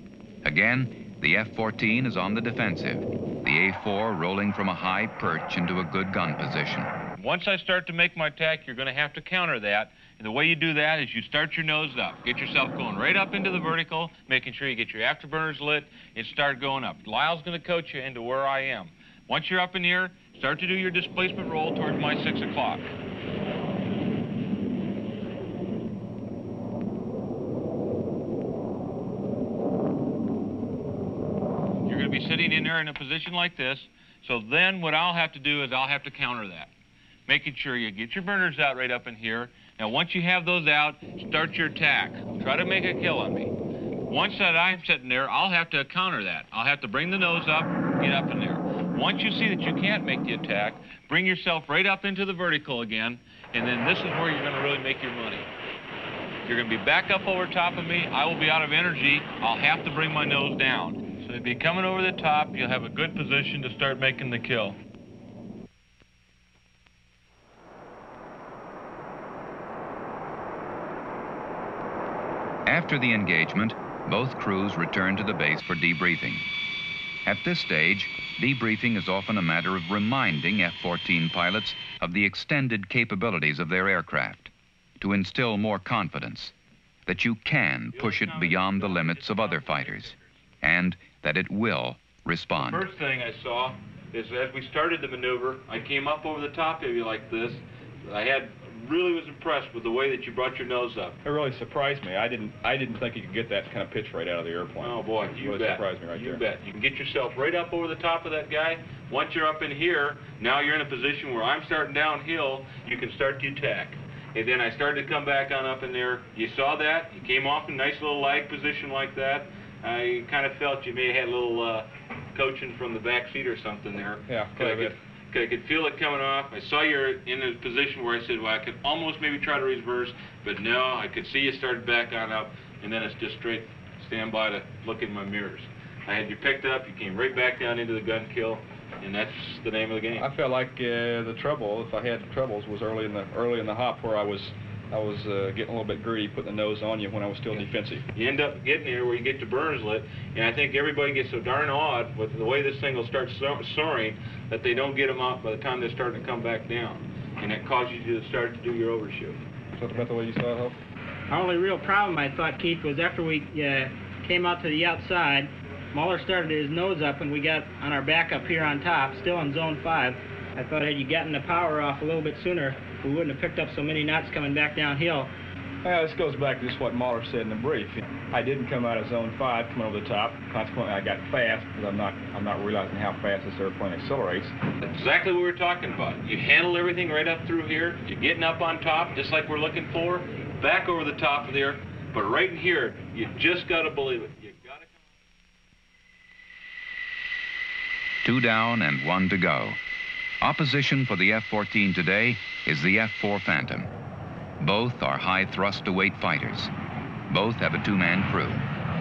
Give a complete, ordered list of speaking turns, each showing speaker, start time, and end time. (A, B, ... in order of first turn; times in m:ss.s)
0:00.4-0:06.9 A
0:07.2-0:22.9 B
0:31.8-0:36.7 B
0:37.3-0:43.5 B
0:44.1-0:55.5 B
0:56.4-1:04.8 B
1:12.6-1:16.4 A
1:17.2-1:26.5 A
1:27.1-1:32.9 A
1:27.9-1:30.2 B
1:32.6-1:41.2 B
1:41.2-1:46.4 C
1:44.8-2:20.3 B
2:04.3-2:05.0 C
2:20.1-2:28.0 C
2:28.1-2:39.4 B
2:39.7-2:40.8 C
2:41.3-2:55.3 D
2:55.8-3:04.5 C
3:04.8-3:14.9 B
3:18.2-3:19.8 A
3:20.4-3:23.9 A
3:24.6-3:26.7 A
3:27.3-3:28.6 A